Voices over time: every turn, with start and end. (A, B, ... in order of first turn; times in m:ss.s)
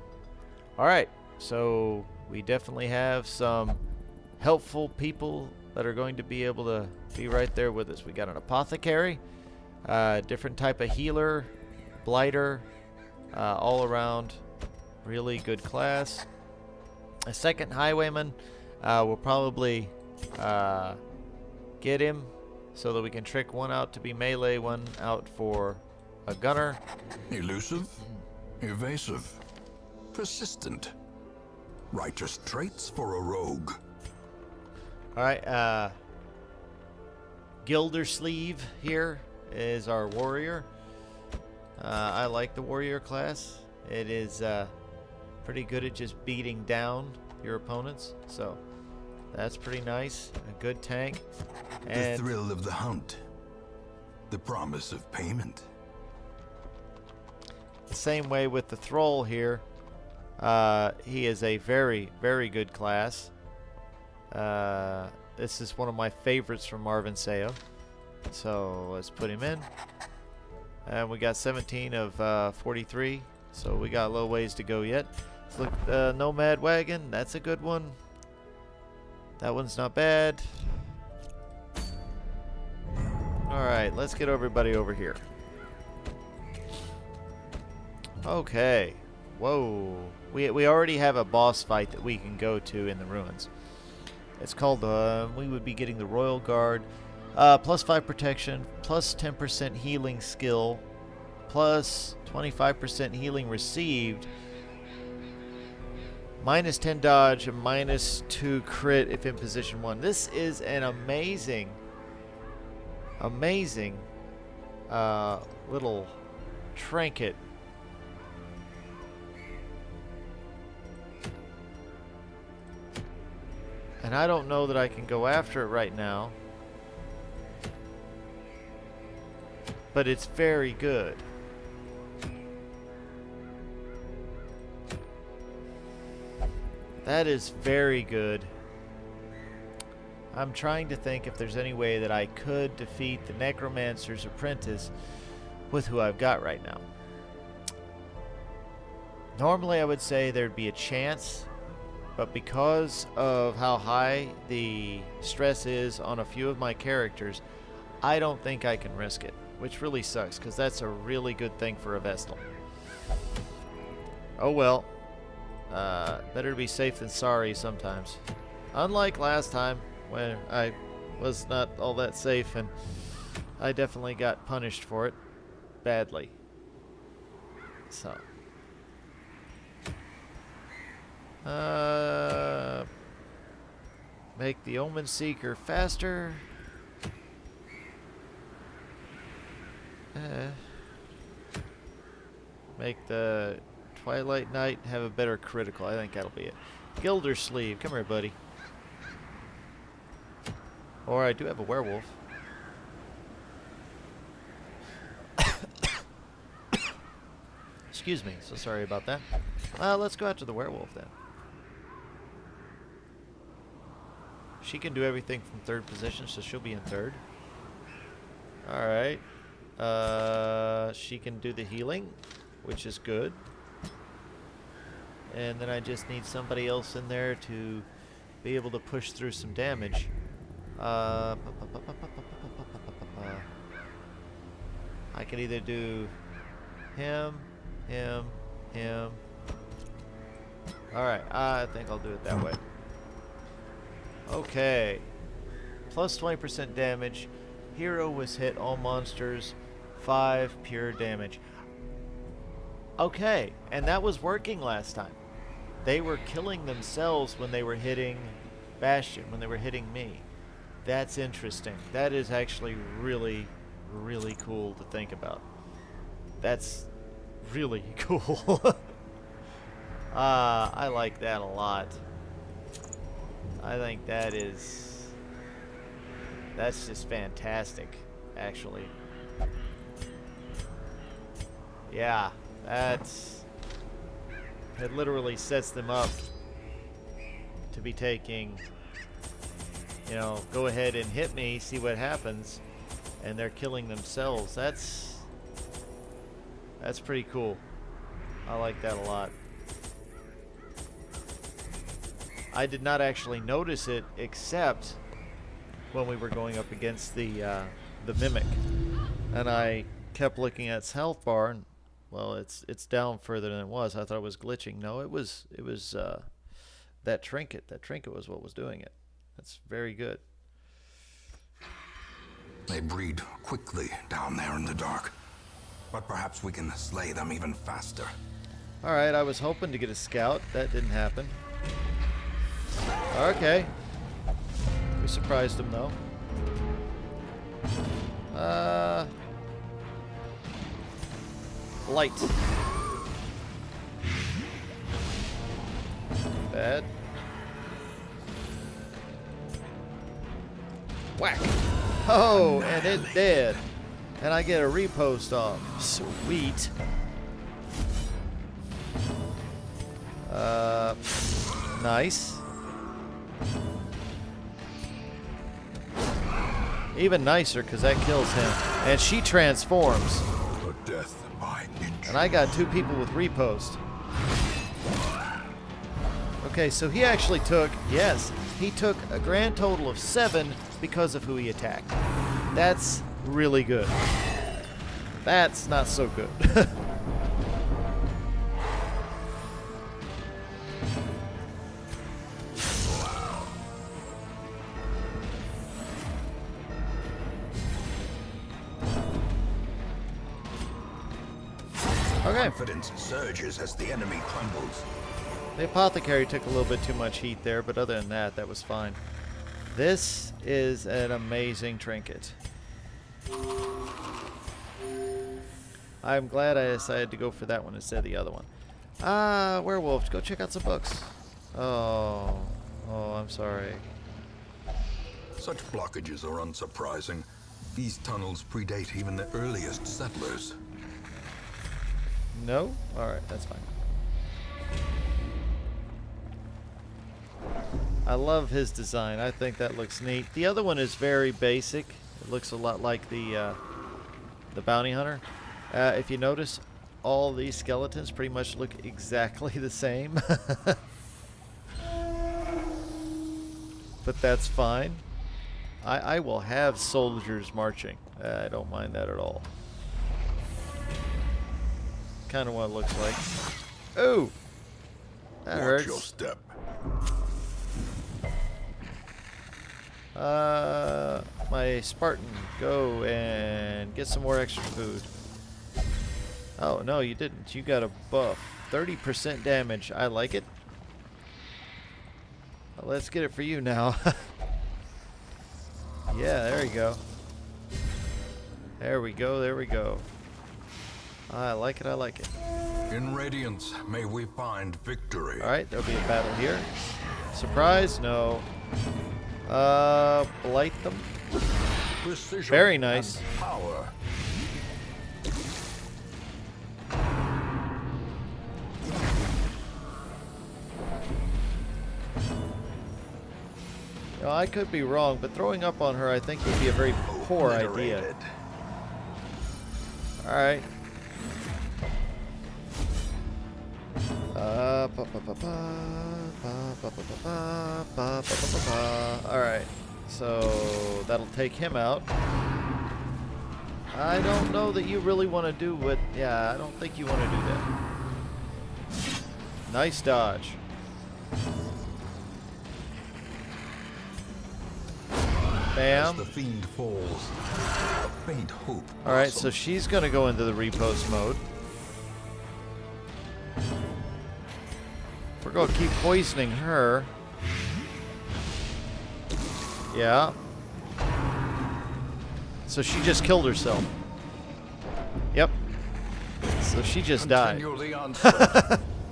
0:00.8-0:03.8 A
0:04.4-0:09.2 A
0:09.8-0:12.6 A
0:13.3-0:14.4 A
0:15.0-0:16.2 A
0:17.3-0:21.0 A
0:21.8-0:26.8 A
0:27.3-0:28.0 B
0:28.6-0:29.4 B
0:30.1-0:30.9 B
0:31.9-0:33.8 B
0:35.1-0:36.0 A
0:37.6-0:40.7 A
0:41.8-0:44.7 A
0:45.4-0:48.6 A
0:49.3-0:51.2 A
0:51.8-0:52.3 A
0:51.9-0:53.2 B
0:54.3-0:55.7 B
0:57.9-0:59.6 A
1:00.4-1:03.3 A
1:04.3-1:07.6 A
1:08.3-1:09.7 A
1:10.8-1:18.0 A
1:19.4-1:20.6 A
1:23.5-1:25.2 A
1:28.2-1:33.5 A
1:34.4-1:40.8 A
1:41.5-1:44.3 A
1:46.4-1:51.8 A
1:53.2-1:54.1 A
1:54.9-1:56.2 A
1:56.7-1:57.4 A
2:04.0-2:06.4 A
2:09.9-2:11.3 A
2:17.0-2:18.5 A
2:20.3-2:24.9 A
2:25.7-2:26.8 A
2:29.3-2:31.5 A
2:32.2-2:37.4 A
2:38.0-2:42.4 A
2:44.4-2:44.9 A
2:45.7-2:48.2 A
2:48.7-2:52.7 A
2:53.6-2:55.2 A
2:55.8-2:56.4 A
2:57.9-2:58.2 A
3:01.4-3:02.9 A
3:04.4-3:06.4 A
3:10.1-3:10.6 A
3:12.8-3:18.4 A
3:21.0-3:22.2 A
3:27.9-3:29.2 A
3:29.8-3:31.1 A
3:34.6-3:37.2 A
3:38.6-3:39.2 A
3:39.8-3:43.4 A
3:45.3-3:47.9 A
3:48.4-3:50.1 A
3:50.8-3:53.5 A
3:55.1-3:56.1 A
3:56.9-3:59.2 A
4:00.9-4:02.6 A
4:04.3-4:05.1 A
4:05.9-4:11.4 A
4:13.0-4:15.2 A
4:15.8-4:20.2 A
4:20.8-4:25.4 A
4:26.4-4:26.9 A
4:27.4-4:28.9 A
4:30.1-4:32.0 A
4:33.6-4:35.1 A
4:36.5-4:38.9 A
4:41.9-4:43.4 A
4:44.8-4:46.3 A
4:47.7-4:48.6 A
4:50.0-4:52.6 A
4:53.2-4:55.3 A
4:56.8-4:57.6 A
4:58.4-4:59.3 A
5:02.5-5:05.0 A
5:05.9-5:08.6 A
5:09.3-5:16.2 A
5:17.0-5:20.2 A
5:22.7-5:25.1 B
5:25.9-5:28.1 B
5:28.8-5:31.4 A
5:33.1-5:33.7 A
5:35.0-5:36.0 A
5:38.3-5:39.1 A
5:41.8-5:42.3 A
5:46.5-5:46.9 A
5:51.2-5:53.6 A
5:52.3-5:53.6 B
5:54.2-5:56.7 A
6:00.2-6:01.0 A
6:01.7-6:02.4 A
6:06.9-6:10.2 A
6:10.4-6:12.5 B
6:12.0-6:13.8 A
6:16.4-6:22.0 A
6:22.5-6:24.0 A
6:25.2-6:26.8 A
6:42.2-6:42.5 A
6:42.2-6:44.9 B
6:45.6-6:49.0 A
6:49.7-6:52.4 A
6:56.0-6:58.5 A
6:59.0-7:03.8 A
7:05.4-7:10.6 B
7:12.3-7:13.7 A
7:18.0-7:23.6 A
7:24.5-7:30.8 A
7:34.0-7:35.0 A
7:35.8-7:39.5 A
7:42.3-7:43.3 A
7:44.0-7:44.3 A
7:45.4-7:46.1 A
7:45.5-7:46.5 B
7:50.1-7:55.1 A
7:56.6-8:00.5 A
8:02.8-8:04.3 A
8:06.1-8:07.0 A
8:08.8-8:10.0 A
8:11.3-8:12.3 A
8:12.9-8:15.5 B
8:15.4-8:16.7 A
8:17.3-8:18.5 A
8:19.4-8:21.1 A
8:22.0-8:23.9 B
8:22.5-8:23.2 A
8:34.2-8:38.1 A
8:37.1-8:38.3 B
8:40.2-8:40.7 A
8:44.3-8:52.1 A
8:53.9-8:57.7 A
8:59.7-9:00.6 A
9:05.7-9:06.3 A
9:05.9-9:07.4 B
9:08.0-9:09.6 B
9:09.0-9:11.4 A
9:15.4-9:17.1 A
9:19.9-9:20.4 A
9:22.7-9:23.9 A
9:26.6-9:27.6 A
9:27.2-9:28.7 B
9:28.2-9:28.8 A